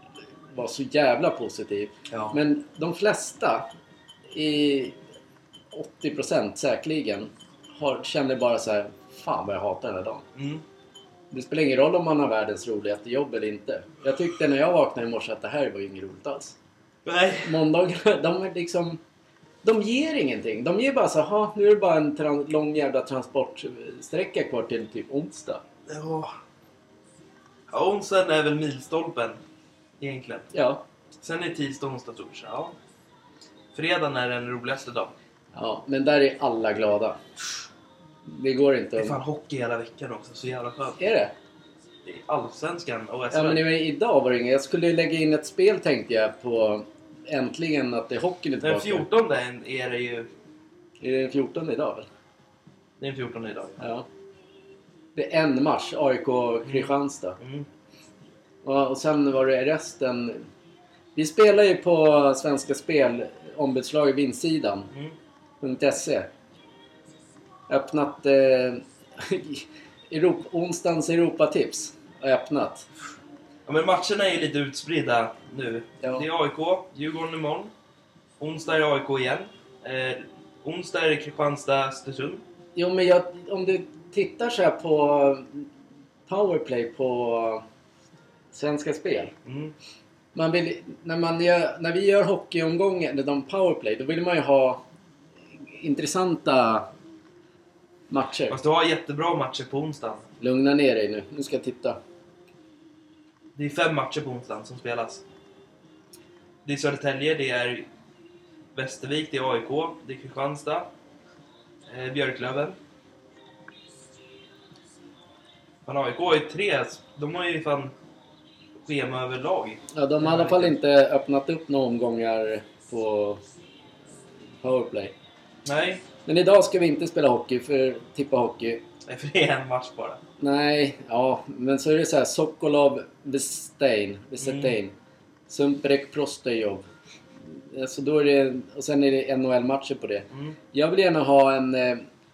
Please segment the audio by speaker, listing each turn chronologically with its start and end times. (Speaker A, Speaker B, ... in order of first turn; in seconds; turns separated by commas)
Speaker A: 0.5-3.7, Speaker B: 2.1-2.4, Speaker A: 4.3-5.0, Speaker A: 5.7-10.2, Speaker B: 10.3-10.6, Speaker A: 11.3-16.5, Speaker B: 17.0-17.5, Speaker A: 17.4-19.0, Speaker A: 19.6-25.6, Speaker B: 25.9-26.3, Speaker B: 27.7-29.4, Speaker B: 30.0-30.5, Speaker A: 30.5-30.8, Speaker B: 31.2-32.7, Speaker B: 33.7-35.1, Speaker A: 35.5-37.2, Speaker A: 38.3-39.2, Speaker B: 39.0-41.0, Speaker A: 41.0-41.3, Speaker B: 42.0-43.6, Speaker A: 43.3-49.1, Speaker B: 48.6-50.3, Speaker A: 51.0-52.1, Speaker B: 53.0-53.8, Speaker A: 53.8-54.0, Speaker A: 55.1-57.4, Speaker B: 56.6-57.7, Speaker A: 58.6-60.5, Speaker A: 61.1-64.9, Speaker A: 65.6-66.3, Speaker A: 67.7-72.9, Speaker B: 73.7-77.7, Speaker A: 76.0-76.3, Speaker B: 78.4-82.4, Speaker A: 82.7-85.7, Speaker A: 86.3-87.6, Speaker A: 88.5-89.3, Speaker B: 89.4-89.7, Speaker A: 90.3-94.8, Speaker A: 95.8-96.9, Speaker A: 98.1-98.6, Speaker B: 98.5-100.3, Speaker A: 100.4-102.0, Speaker B: 103.5-105.2, Speaker B: 106.6-107.9, Speaker B: 108.7-110.9, Speaker B: 111.9-112.8, Speaker B: 115.8-117.9, Speaker B: 118.8-120.7, Speaker A: 119.9-123.4, Speaker A: 124.6-125.1, Speaker B: 125.6-126.0, Speaker A: 126.2-128.8, Speaker B: 129.0-130.2, Speaker A: 130.4-134.9, Speaker B: 134.4-134.7, Speaker A: 135.5-136.8, Speaker A: 137.7-142.0